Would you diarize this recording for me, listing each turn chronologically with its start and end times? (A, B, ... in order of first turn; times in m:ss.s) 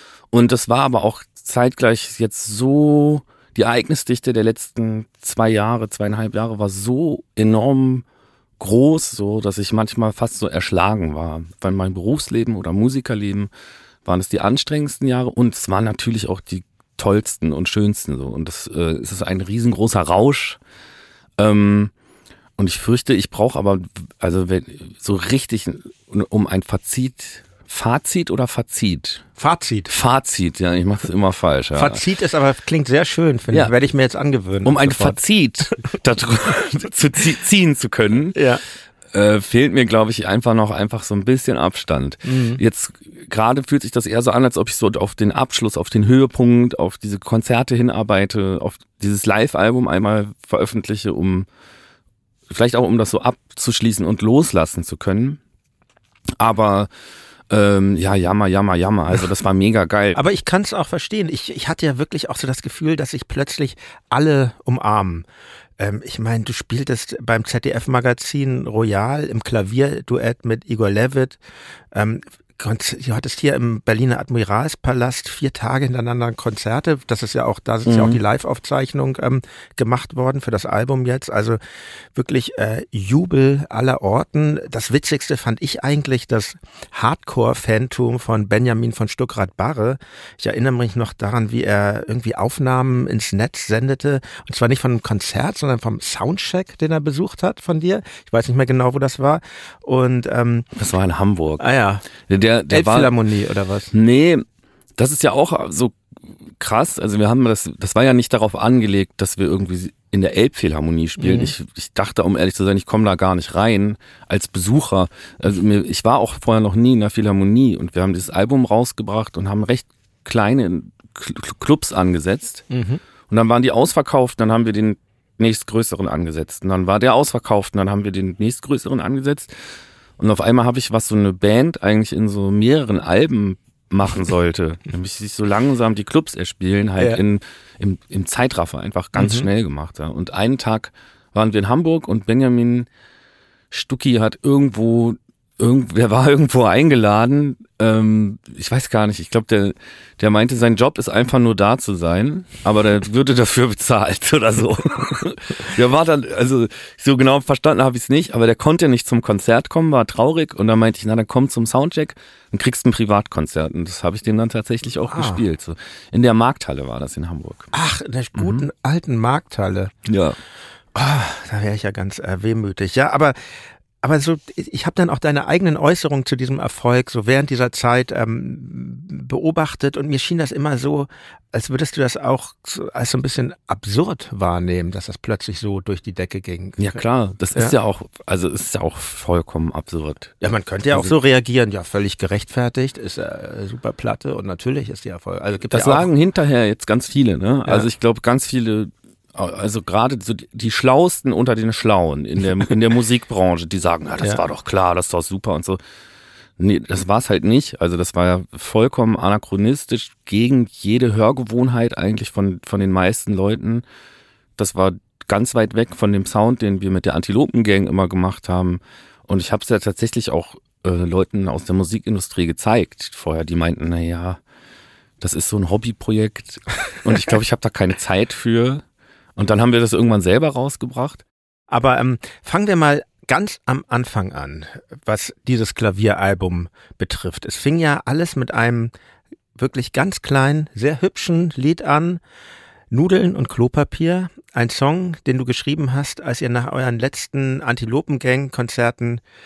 0:00.3-0:08.0 A
0:08.6-0:13.5 A
0:14.0-0:20.6 A
0:21.4-0:21.9 A
0:22.6-0:29.2 A
0:29.4-0:29.9 B
0:29.9-0:32.0 A
0:31.7-0:35.2 B
0:34.6-0:38.4 A
0:38.3-0:38.6 B
0:39.1-0:51.5 A
0:42.2-0:42.6 B
0:52.5-0:55.4 A
0:56.4-0:56.9 A
0:57.5-1:00.2 A
1:00.1-1:05.2 B
1:05.8-1:11.4 B
1:11.9-1:21.6 B
1:17.8-1:18.2 A
1:22.1-1:40.7 B
1:40.8-1:43.1 A
1:41.6-1:42.1 B
1:42.7-1:43.9 B
1:43.9-1:44.4 A
1:45.0-1:46.0 A
1:46.6-2:02.6 A
1:51.2-1:51.5 B
2:02.7-2:03.0 B
2:03.3-2:09.5 A
2:10.2-2:22.9 A
2:19.2-2:19.5 B
2:23.7-2:47.7 A
2:45.1-2:45.4 B
2:47.7-2:49.9 B
2:48.4-2:48.6 A
2:50.0-2:50.4 A
2:50.9-3:07.0 B
3:06.8-3:10.3 A
3:10.4-3:16.1 B
3:15.7-3:25.8 A
3:26.6-3:33.8 A
3:34.6-3:44.4 A
3:45.2-3:48.8 A
3:49.4-3:51.2 A
3:51.7-3:58.9 B
3:59.6-4:02.2 B
4:02.9-4:09.2 B